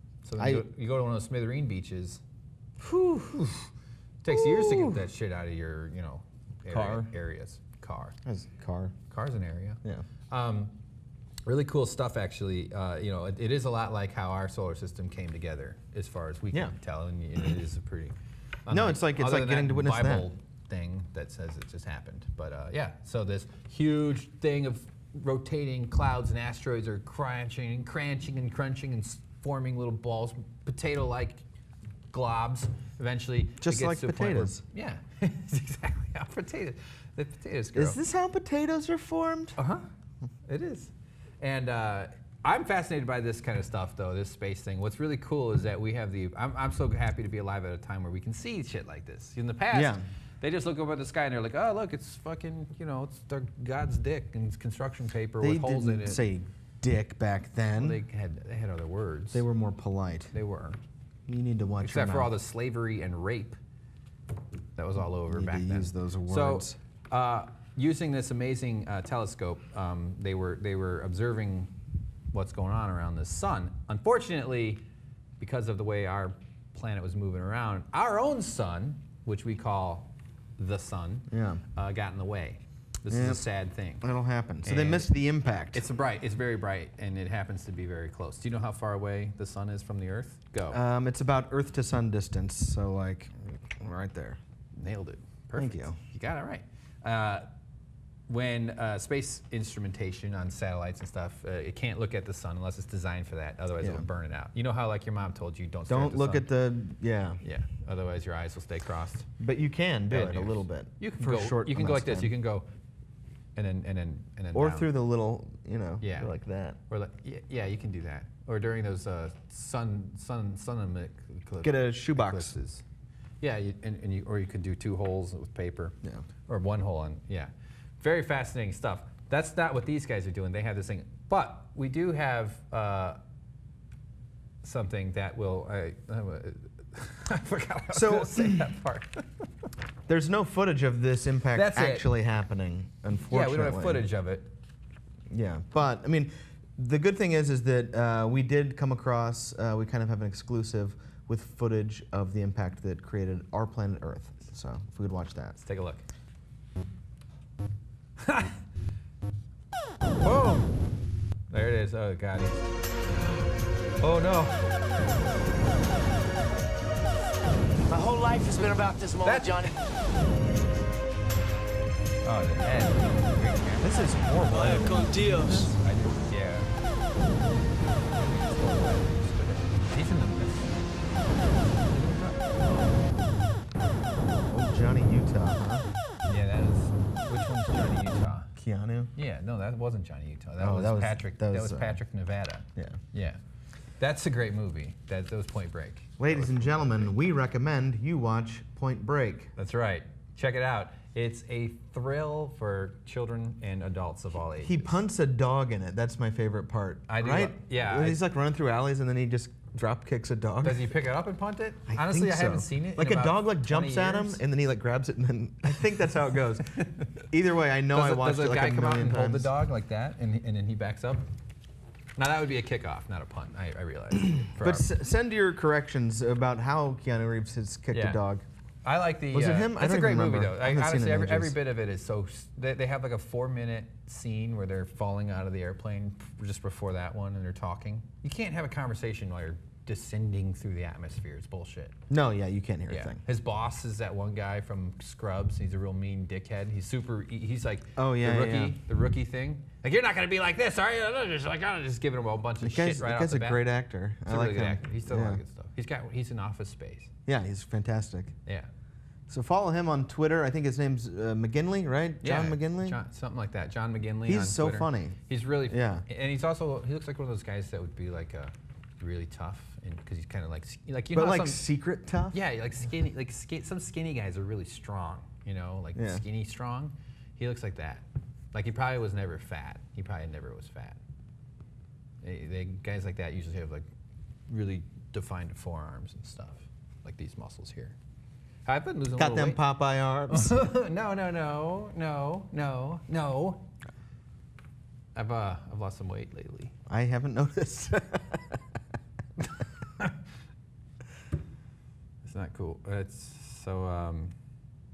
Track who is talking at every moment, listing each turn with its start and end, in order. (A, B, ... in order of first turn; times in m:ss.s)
0:00.2-0:02.2 A
0:00.4-0:00.7 B
0:02.8-0:03.6 B
0:04.2-0:08.2 A
0:04.3-0:05.0 B
0:06.7-0:07.1 B
0:08.2-0:08.9 B
0:09.1-0:10.8 A
0:11.4-0:18.2 A
0:18.7-0:31.4 A
0:18.7-0:20.3 B
0:32.1-0:38.0 A
0:33.6-0:34.6 B
0:37.7-0:39.6 B
0:39.6-0:39.8 A
0:40.5-0:56.2 A
0:49.7-0:50.0 B
0:55.4-0:58.0 B
0:57.8-0:59.4 A
0:59.3-1:00.3 B
1:00.3-1:00.8 A
1:01.3-1:02.3 B
1:01.8-1:03.6 A
1:04.8-1:11.7 A
1:05.1-1:06.8 B
1:12.3-1:14.8 A
1:15.4-1:24.1 A
1:21.3-1:21.6 B
1:23.1-1:23.4 B
1:24.0-1:25.8 B
1:24.6-1:25.2 A
1:25.7-1:30.8 A
1:30.7-1:34.4 B
1:34.8-1:37.5 A
1:35.6-1:36.0 B
1:38.3-1:46.5 A
1:43.8-1:44.1 B
1:45.9-1:47.4 B
1:47.4-1:49.3 A
1:49.4-1:52.3 B
1:50.1-1:52.7 A
1:53.6-1:54.9 A
1:54.5-1:56.8 B
1:56.0-1:56.3 A
1:56.9-2:02.8 A
2:01.6-2:02.5 B
2:03.4-2:13.2 A
2:14.6-2:19.5 A
2:17.9-2:18.7 B
2:20.1-2:24.0 B
2:21.6-2:22.1 A
2:23.3-2:24.5 A
2:25.3-2:35.6 B
2:35.6-2:36.1 A
2:38.2-2:38.6 A
2:40.2-2:40.8 A
2:41.5-2:42.7 A
2:44.0-2:44.7 A
2:47.9-2:49.7 C
2:49.2-2:49.7 A
2:52.2-2:54.0 A
2:53.8-2:55.7 B
2:54.5-2:55.7 C
2:55.2-2:56.7 A
2:58.1-3:03.1 A
3:04.5-3:05.9 B
3:06.3-3:08.5 A
3:08.6-3:09.1 B
3:09.2-3:13.4 A
3:10.6-3:12.0 B
3:14.0-3:17.1 A
3:16.2-3:19.5 B
3:19.6-3:25.0 A
3:24.6-3:30.9 B
3:27.1-3:28.2 A
3:30.6-3:34.4 A
3:31.9-3:39.5 B
3:36.7-3:37.2 A
3:37.9-3:41.2 A
3:42.2-3:44.9 A
3:44.3-3:48.4 B
3:47.9-3:48.2 A
3:48.8-4:02.0 A
3:49.3-3:51.6 B
4:02.1-4:03.2 B
4:02.9-4:17.1 A
4:08.0-4:08.8 B
4:12.6-4:15.4 B
4:17.2-4:18.3 B
4:19.3-4:23.0 B
4:22.2-4:31.6 A
4:24.2-4:26.0 B
4:31.1-4:32.4 B
4:32.3-4:41.0 A
4:36.0-4:36.2 B
4:42.2-4:43.9 A
4:44.5-4:48.0 A
4:48.6-4:49.6 A
4:49.2-4:50.7 B
4:50.3-4:53.7 A
4:55.1-4:56.7 A
4:56.9-4:58.6 B
4:59.4-5:00.2 A
5:02.2-5:04.3 A